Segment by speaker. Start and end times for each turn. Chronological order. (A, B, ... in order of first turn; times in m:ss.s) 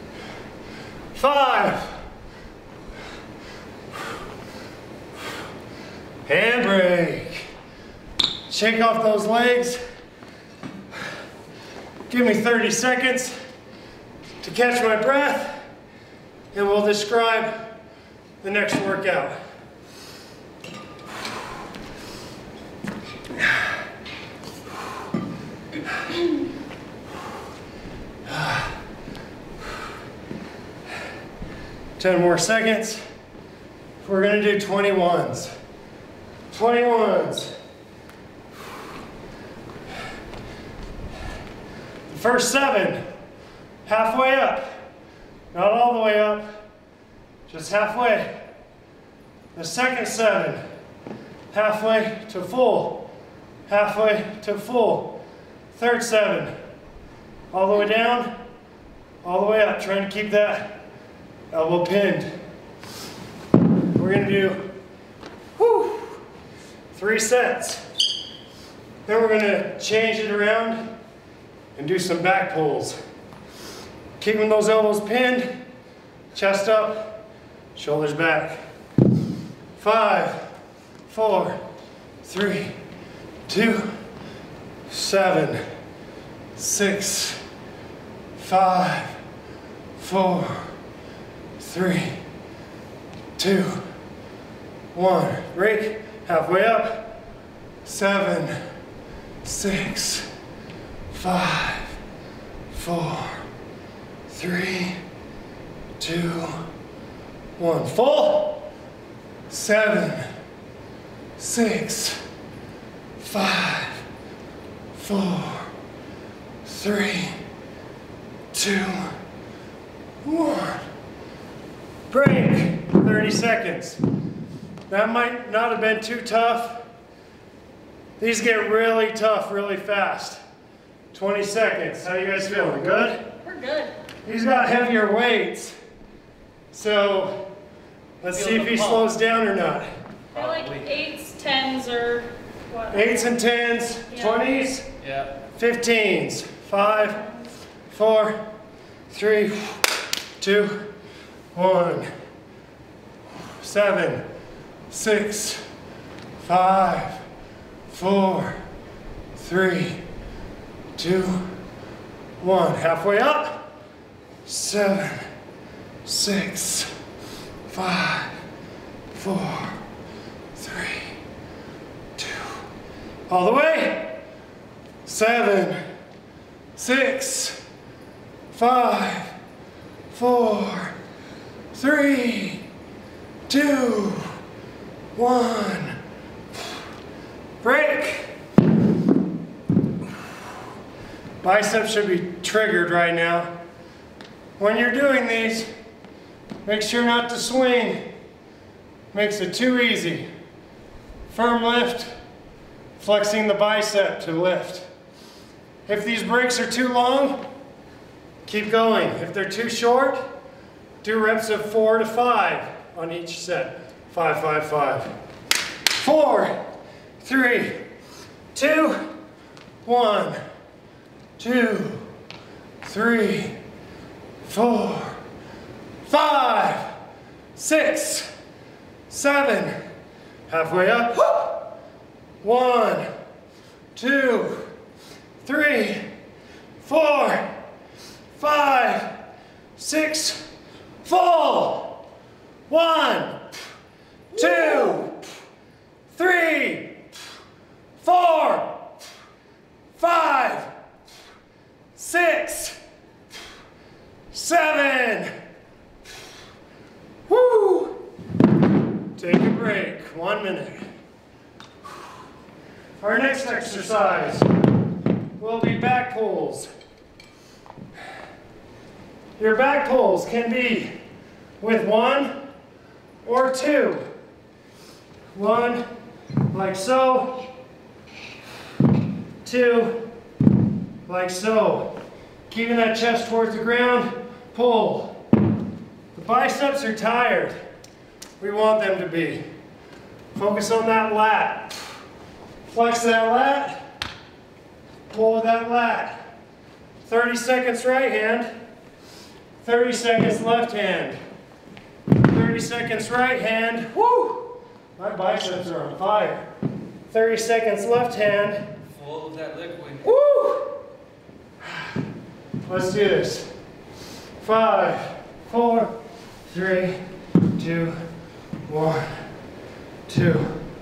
0:01.1-0:02.0 A
0:06.3-0:07.5 A
0:08.5-0:09.8 A
0:12.1-0:13.4 A
0:14.4-0:15.6 A
0:16.5-0:17.7 A
0:18.4-0:19.4 A
0:28.3-0:28.7 A
0:32.0-0:33.0 A
0:34.0-0:35.5 A
0:36.5-0:37.5 A
0:42.1-0:43.0 A
0:43.8-0:44.8 A
0:45.5-0:46.6 A
0:47.5-0:48.3 A
0:49.6-0:50.6 A
0:51.5-0:53.1 A
0:53.7-0:55.2 A
0:55.7-0:56.5 A
0:57.5-0:58.3 A
0:59.2-1:00.8 A
1:01.5-1:02.3 A
1:04.0-1:04.7 A
1:05.6-1:06.2 A
1:06.9-1:07.8 A
1:09.1-1:10.8 A
1:11.8-1:13.0 A
1:14.2-1:15.5 A
1:16.4-1:17.2 A
1:17.8-1:18.6 A
1:19.8-1:20.5 A
1:21.1-1:21.6 A
1:22.2-1:22.7 A
1:23.5-1:23.9 A
1:24.9-1:25.6 A
1:26.6-1:27.4 A
1:28.4-1:29.2 A
1:30.0-1:30.7 A
1:31.6-1:32.2 A
1:33.4-1:33.8 A
1:34.9-1:37.1 A
1:37.8-1:38.6 A
1:39.4-1:40.3 A
1:41.1-1:42.0 A
1:42.7-1:43.4 A
1:44.3-1:45.0 A
1:46.0-1:46.6 A
1:47.6-1:48.7 A
1:49.5-1:50.3 A
1:51.4-1:52.2 A
1:53.2-1:54.0 A
1:55.0-1:55.7 A
1:56.6-1:57.4 A
1:58.5-1:59.2 A
2:00.2-2:00.8 A
2:02.1-2:04.0 A
2:04.9-2:06.8 A
2:08.2-2:10.4 A
2:11.1-2:13.2 A
2:13.4-2:13.9 B
2:14.2-2:15.8 A
2:16.7-2:17.5 A
2:18.2-2:19.9 A
2:18.3-2:19.1 C
2:20.3-2:23.3 B
2:20.3-2:20.9 C
2:22.9-2:24.9 A
2:24.1-2:24.5 B
2:25.0-2:25.3 C
2:25.6-2:27.2 A
2:26.8-2:27.4 B
2:27.9-2:28.4 A
2:29.1-2:30.9 A
2:31.5-2:32.1 A
2:33.6-2:34.2 A
2:34.9-2:35.6 A
2:36.4-2:37.2 A
2:37.9-2:38.6 A
2:39.4-2:40.0 A
2:41.0-2:41.5 A
2:42.4-2:43.7 A
2:44.4-2:45.3 A
2:46.0-2:46.9 A
2:47.7-2:48.4 A
2:49.1-2:49.8 A
2:50.6-2:51.2 A
2:52.2-2:52.6 A
2:53.3-2:54.2 A
2:55.0-2:55.8 A
2:56.8-2:57.6 A
2:58.5-2:59.3 A
3:00.1-3:01.0 A
3:01.7-3:02.6 A
3:03.5-3:04.3 A
3:05.2-3:06.0 A
3:07.6-3:08.3 A
3:11.4-3:13.5 A
3:14.6-3:15.7 A
3:16.6-3:18.0 A
3:19.1-3:20.3 A
3:21.3-3:22.1 A
3:23.0-3:24.9 A
3:25.9-3:27.4 A
3:28.5-3:30.2 A
3:31.0-3:35.1 A
3:36.0-3:36.6 A
3:37.2-3:37.8 A
3:38.5-3:39.0 A
3:39.8-3:40.4 A
3:41.4-3:42.0 A
3:42.8-3:43.5 A
3:44.4-3:45.2 A
3:46.1-3:46.9 A
3:47.6-3:48.3 A
3:49.1-3:49.7 A
3:50.5-3:51.7 A
3:52.4-3:53.1 A
3:54.0-3:54.7 A
3:55.4-3:56.0 A
3:56.8-3:57.5 A
3:58.4-3:59.2 A
3:59.8-4:00.5 A
4:01.0-4:02.0 A
4:02.7-4:03.4 A
4:04.3-4:05.2 A
4:06.1-4:07.0 A
4:08.0-4:08.9 A
4:10.0-4:10.7 A
4:12.0-4:12.8 A
4:14.3-4:15.3 A
4:17.3-4:18.0 A
4:19.2-4:20.9 A
4:23.0-4:24.5 A
4:25.4-4:26.7 A
4:29.4-4:30.9 A
4:31.6-4:32.4 A
4:33.2-4:34.0 A
4:35.3-4:35.8 A
4:36.5-4:37.5 A
4:39.4-4:40.1 A
4:41.1-4:41.9 A
4:42.5-4:45.2 A
4:46.1-4:47.5 A
4:48.4-4:49.4 A
4:50.4-4:51.8 A
4:52.7-4:53.8 A
4:55.1-4:56.2 A
4:57.0-4:58.5 A
4:59.6-5:01.2 A
5:02.2-5:06.5 A
5:07.1-5:08.6 A
5:08.9-5:10.1 C
5:10.0-5:10.7 A
5:12.7-5:13.5 A
5:14.4-5:15.9 A
5:16.5-5:17.0 A
5:17.6-5:18.0 A
5:18.7-5:19.2 A
5:20.1-5:20.6 A